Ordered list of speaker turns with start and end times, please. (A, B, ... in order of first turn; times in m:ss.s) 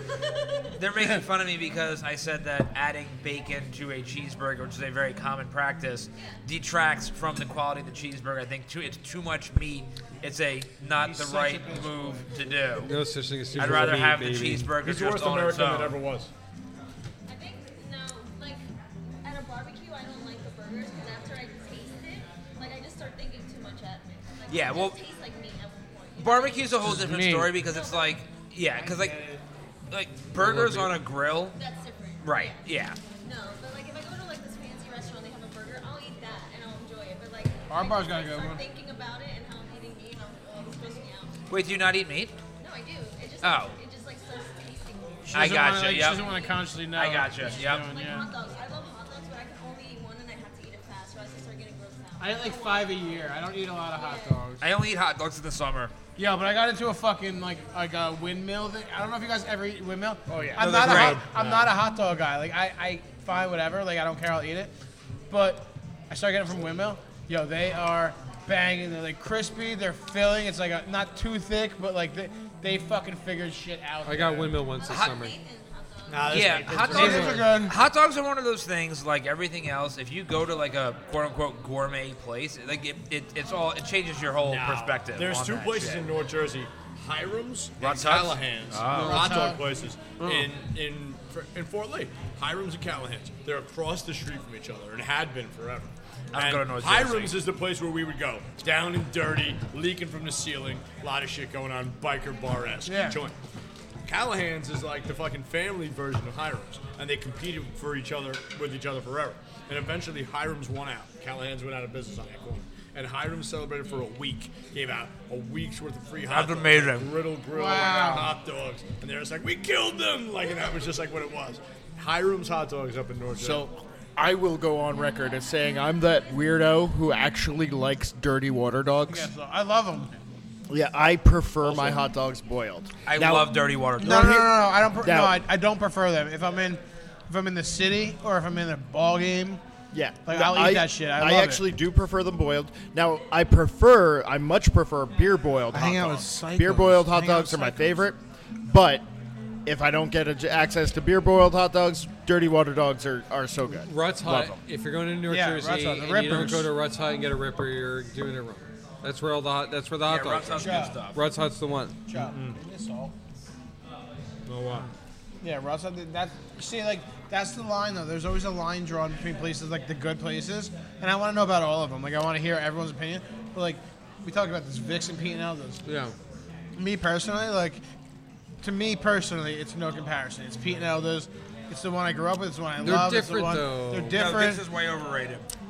0:00.8-0:12.9 A
0:01.0-0:01.2 B
0:11.0-0:12.9 B
0:12.8-0:14.7 C
0:13.5-0:16.0 A
0:13.6-0:14.0 D
0:14.8-0:16.3 D
0:17.3-0:18.6 E
0:19.2-0:26.9 E
0:24.5-0:25.0 A
0:26.2-0:29.2 A
0:26.8-0:27.6 B
0:27.6-0:28.2 E
0:28.8-0:29.4 B
0:29.9-0:31.6 A
0:30.4-0:31.0 C
0:31.5-0:32.7 E
0:32.2-0:33.0 A
0:33.2-0:41.3 E
0:37.7-0:38.6 B
0:41.5-0:42.4 A
0:42.6-0:45.3 E
0:43.4-0:43.8 A
0:45.2-0:48.3 B
0:45.3-0:46.3 A
0:46.9-0:47.9 A
0:47.6-0:53.0 E
0:52.2-0:54.6 B
0:53.9-0:54.5 E
0:54.6-0:55.9 A
0:56.2-1:04.7 B
1:00.3-1:01.7 D
1:05.3-1:14.6 B
1:14.0-1:15.4 C
1:14.8-1:16.7 E
1:14.9-1:15.2 A
1:16.1-1:17.4 D
1:16.2-1:26.1 A
1:16.9-1:17.8 B
1:16.9-1:17.5 C
1:24.4-1:43.3 D
1:27.8-1:29.3 A
1:28.9-1:29.6 C
1:28.9-1:29.7 B
1:30.2-1:30.5 C
1:36.3-1:37.4 A
1:42.8-1:43.2 B
1:44.0-2:03.6 D
1:56.3-1:57.1 A
1:57.5-1:58.4 B
2:03.4-2:09.3 F
2:09.1-2:10.1 B
2:10.7-2:15.4 F
2:11.6-2:12.0 D
2:13.0-2:14.3 A
2:14.0-2:19.6 B
2:19.9-2:29.0 F
2:20.3-2:21.6 B
2:25.7-2:28.0 B
2:29.6-2:34.6 F
2:33.8-2:42.0 C
2:35.3-2:36.7 B
2:40.0-2:41.2 A
2:40.6-2:41.0 B
2:42.1-2:43.1 B
2:42.1-2:42.6 D
2:44.5-2:44.9 D
2:45.4-2:55.8 B
2:55.8-2:56.1 C
2:56.8-2:57.8 B
2:58.6-3:04.6 B
3:02.8-3:04.3 C
3:04.1-3:05.4 A